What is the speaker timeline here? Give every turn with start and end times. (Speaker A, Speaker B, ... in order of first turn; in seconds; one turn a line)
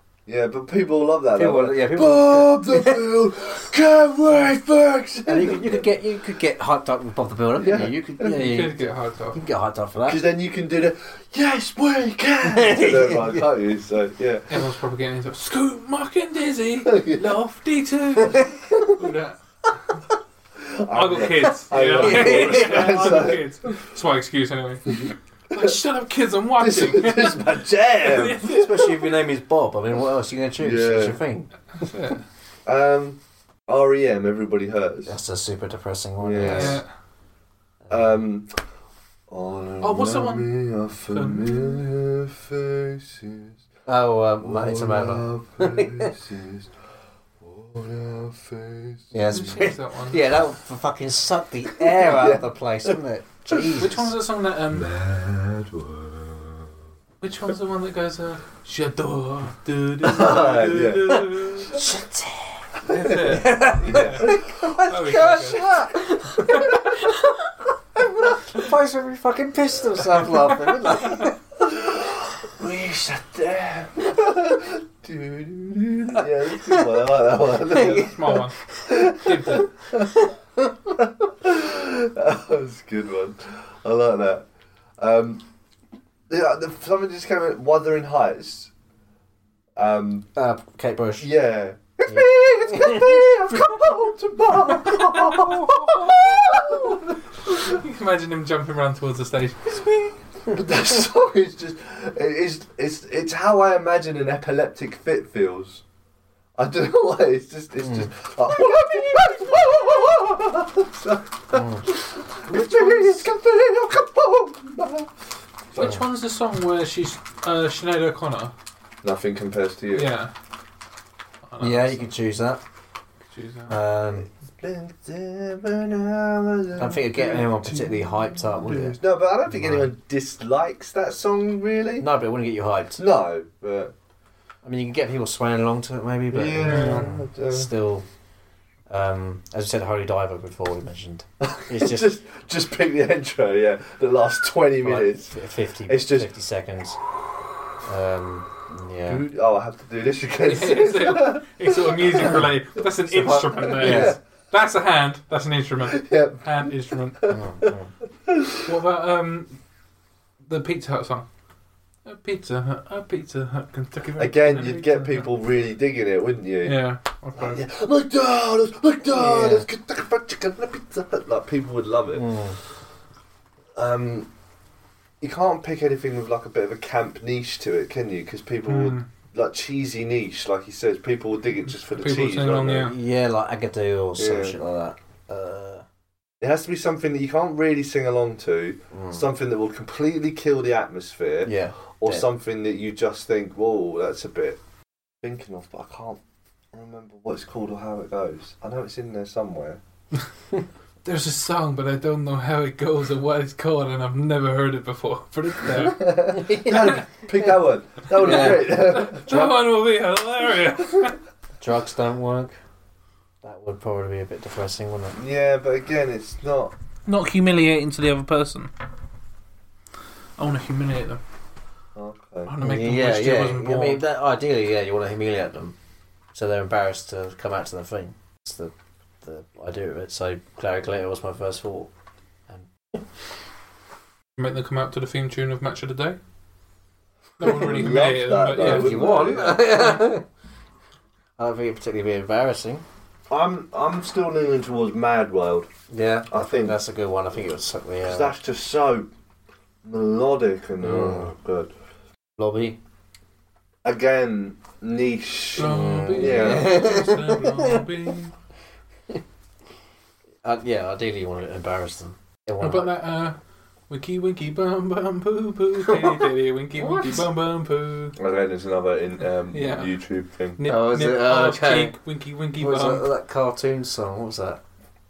Speaker A: 0.3-5.8
Speaker B: 1.4-3.1
Speaker B: 5.3-10.2
Speaker A: 7.6-8.0
Speaker C: 8.2-9.4
Speaker A: 10.1-14.6
Speaker B: 12.4-13.5
Speaker C: 14.5-19.4
Speaker A: 16.8-17.3
Speaker A: 18.3-19.1
Speaker A: 20.6-23.5
Speaker C: 20.9-29.0
Speaker B: 22.0-23.1
Speaker A: 25.1-25.7
Speaker A: 26.6-28.6
Speaker B: 28.4-31.5
Speaker A: 30.6-31.2
Speaker C: 31.8-32.2
Speaker A: 32.7-35.1
Speaker B: 35.1-36.8
Speaker A: 36.2-36.8
Speaker C: 36.4-36.9
Speaker A: 37.9-38.5
Speaker A: 39.3-43.6
Speaker C: 39.8-40.5
Speaker C: 41.1-41.8
Speaker B: 43.9-46.1
Speaker A: 44.4-46.7
Speaker A: 47.4-49.6
Speaker B: 49.1-54.1
Speaker C: 49.3-50.2
Speaker A: 51.9-53.0
Speaker A: 53.5-53.8
Speaker C: 53.8-54.9
Speaker A: 54.7-56.7
Speaker C: 57.2-61.8
Speaker A: 60.0-61.8
Speaker B: 61.7-67.1
Speaker C: 62.9-64.3
Speaker A: 62.9-64.7
Speaker C: 64.8-65.6
Speaker B: 68.2-71.4
Speaker A: 71.6-80.1
Speaker C: 77.7-79.7
Speaker A: 81.0-84.5
Speaker A: 85.0-85.4
Speaker A: 86.3-88.7
Speaker A: 89.8-90.3
Speaker B: 90.4-91.3
Speaker A: 91.2-97.2
Speaker B: 92.1-93.1
Speaker C: 94.9-96.1
Speaker C: 97.5-100.2
Speaker A: 100.5-105.8
Speaker A: 106.6-115.1
Speaker B: 107.8-108.1
Speaker B: 111.5-111.8
Speaker C: 112.5-113.2
Speaker C: 115.7-118.5
Speaker A: 119.0-120.1
Speaker C: 119.9-120.3
Speaker C: 121.5-122.0
Speaker B: 121.6-122.6
Speaker C: 123.3-123.7
Speaker B: 123.7-124.3
Speaker A: 124.2-127.9
Speaker B: 126.8-129.9
Speaker A: 128.6-132.1
Speaker B: 132.0-133.0
Speaker A: 133.0-133.9
Speaker B: 134.6-138.1
Speaker A: 136.3-137.7
Speaker C: 136.6-137.1
Speaker B: 138.9-142.1
Speaker A: 141.4-146.3
Speaker B: 144.8-147.0
Speaker B: 147.8-149.2
Speaker A: 149.1-152.4
Speaker C: 150.4-157.3
Speaker A: 153.1-154.2
Speaker B: 153.8-154.2
Speaker A: 155.9-156.7
Speaker A: 157.2-157.7
Speaker B: 157.3-157.9
Speaker A: 158.2-158.7
Speaker C: 158.6-159.6
Speaker C: 160.5-161.3
Speaker C: 162.1-165.3
Speaker A: 164.2-166.8
Speaker C: 166.6-167.6
Speaker A: 167.4-172.3
Speaker B: 169.1-169.7
Speaker B: 172.1-172.6
Speaker A: 173.8-174.3
Speaker A: 175.2-182.9
Speaker C: 178.7-179.1
Speaker C: 181.9-182.9
Speaker B: 182.9-185.8
Speaker A: 184.2-184.6
Speaker A: 186.4-194.6
Speaker B: 188.9-189.2
Speaker B: 191.4-192.3
Speaker A: 195.2-196.2
Speaker A: 196.7-199.8
Speaker C: 201.1-206.9
Speaker A: 205.7-209.4
Speaker B: 206.3-206.9
Speaker B: 208.2-209.5
Speaker C: 208.2-211.2
Speaker B: 211.6-212.6
Speaker B: 213.4-215.2
Speaker A: 215.2-216.7
Speaker C: 217.1-218.7
Speaker C: 220.4-221.2
Speaker A: 221.9-222.5
Speaker C: 222.5-224.0
Speaker B: 222.6-225.8
Speaker B: 226.3-231.9
Speaker B: 232.5-233.0
Speaker C: 234.4-236.2
Speaker C: 237.4-239.3
Speaker A: 237.4-239.7
Speaker B: 238.6-240.2
Speaker B: 241.4-242.8
Speaker A: 243.3-245.7
Speaker B: 245.9-248.3
Speaker A: 246.3-246.8
Speaker A: 248.0-249.1
Speaker A: 249.8-251.7
Speaker B: 250.8-251.3
Speaker B: 252.4-252.8
Speaker A: 253.8-256.8
Speaker C: 255.6-258.3
Speaker B: 255.6-257.8
Speaker B: 260.4-262.9
Speaker C: 262.6-263.4
Speaker C: 263.9-268.2
Speaker B: 265.9-266.2
Speaker B: 266.8-267.2
Speaker A: 268.2-270.6
Speaker C: 269.5-269.9
Speaker C: 270.6-273.1
Speaker B: 270.6-271.9
Speaker B: 272.6-274.6